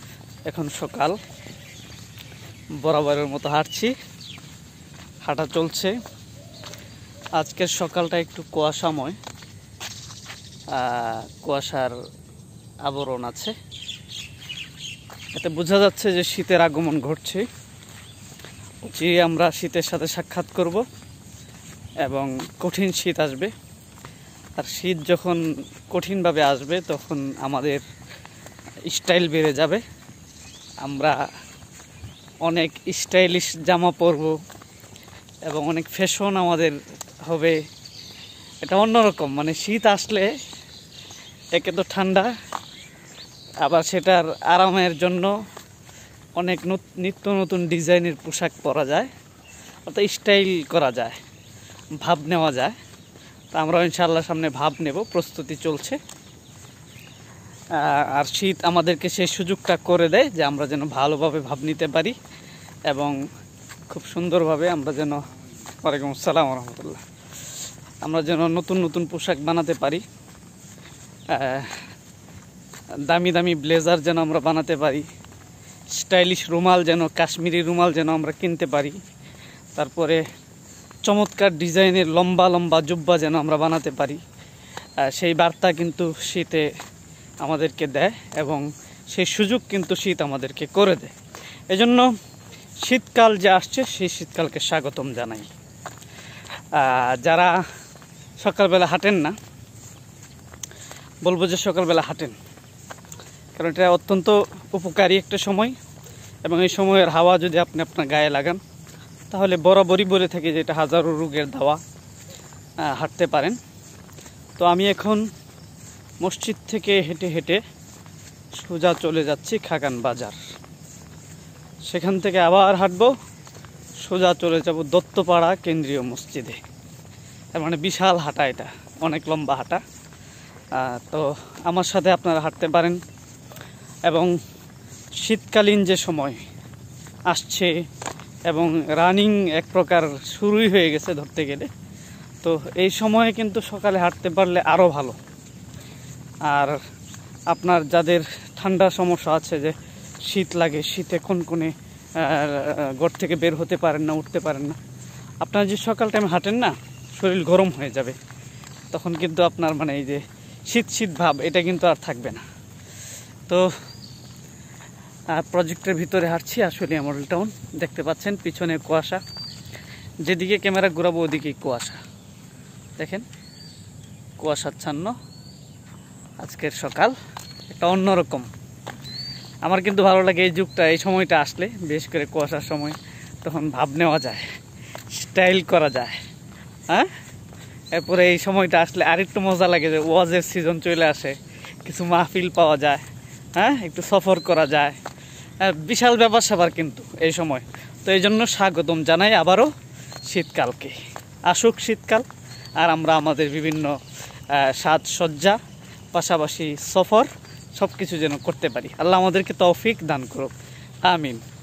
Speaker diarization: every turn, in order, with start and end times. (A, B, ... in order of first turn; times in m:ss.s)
0:00.5-0:01.2 A
0:02.8-0:03.9 A
0:05.2-0:05.9 A
0:07.4-0:09.2 A
0:10.7-0:11.9 A
0:12.8-0:13.6 A
0:15.4-0:17.4 A
0:18.8-0:20.8 A
0:22.0-0:23.5 A
0:24.6-0:25.4 A
0:25.9-0:27.8 A
0:28.9-0:29.8 A
0:30.8-0:31.2 A
0:32.4-0:34.4 A
0:35.5-0:37.6 A
0:38.6-0:40.3 A
0:41.5-0:42.3 A
0:43.6-0:45.3 A
0:46.4-0:49.1 A
0:49.9-0:51.2 A
0:52.0-0:52.8 A
0:53.5-0:56.0 A
0:57.7-1:02.2 A
1:02.9-1:03.2 A
1:03.9-1:05.2 A
1:05.8-1:07.0 A
1:08.0-1:10.0 A
1:11.3-1:11.8 A
1:13.1-1:15.1 A
1:15.9-1:19.0 A
1:19.8-1:20.2 A
1:21.0-1:24.2 A
1:25.0-1:26.7 A
1:27.4-1:31.1 A
1:31.7-1:32.1 A
1:32.8-1:35.5 A
1:36.7-1:37.6 A
1:38.4-1:39.4 A
1:41.2-1:42.3 A
1:43.6-1:45.8 A
1:46.4-1:48.6 A
1:49.3-1:51.8 A
1:52.8-1:53.6 A
1:54.6-1:55.2 A
1:56.2-1:57.6 A
1:58.6-2:00.4 A
2:01.9-2:03.1 A
2:04.0-2:06.6 A
2:07.6-2:09.8 A
2:10.7-2:13.0 A
2:14.1-2:14.3 A
2:15.2-2:16.4 A
2:17.3-2:17.8 A
2:18.5-2:21.7 A
2:22.4-2:25.2 A
2:26.5-2:26.8 A
2:27.5-2:29.7 A
2:30.2-2:34.8 A
2:35.4-2:38.2 A
2:38.9-2:42.4 A
2:45.3-2:49.2 A
2:50.2-2:52.0 A
2:53.0-2:53.2 A
2:54.4-2:55.2 A
2:56.4-2:57.1 A
2:57.7-2:58.5 A
2:59.6-3:04.4 A
3:05.1-3:06.2 A
3:07.9-3:13.0 A
3:13.6-3:15.0 A
3:15.6-3:19.7 A
3:20.3-3:21.0 A
3:21.5-3:22.3 A
3:22.8-3:24.0 A
3:24.5-3:25.6 A
3:26.1-3:30.5 A
3:31.1-3:31.4 A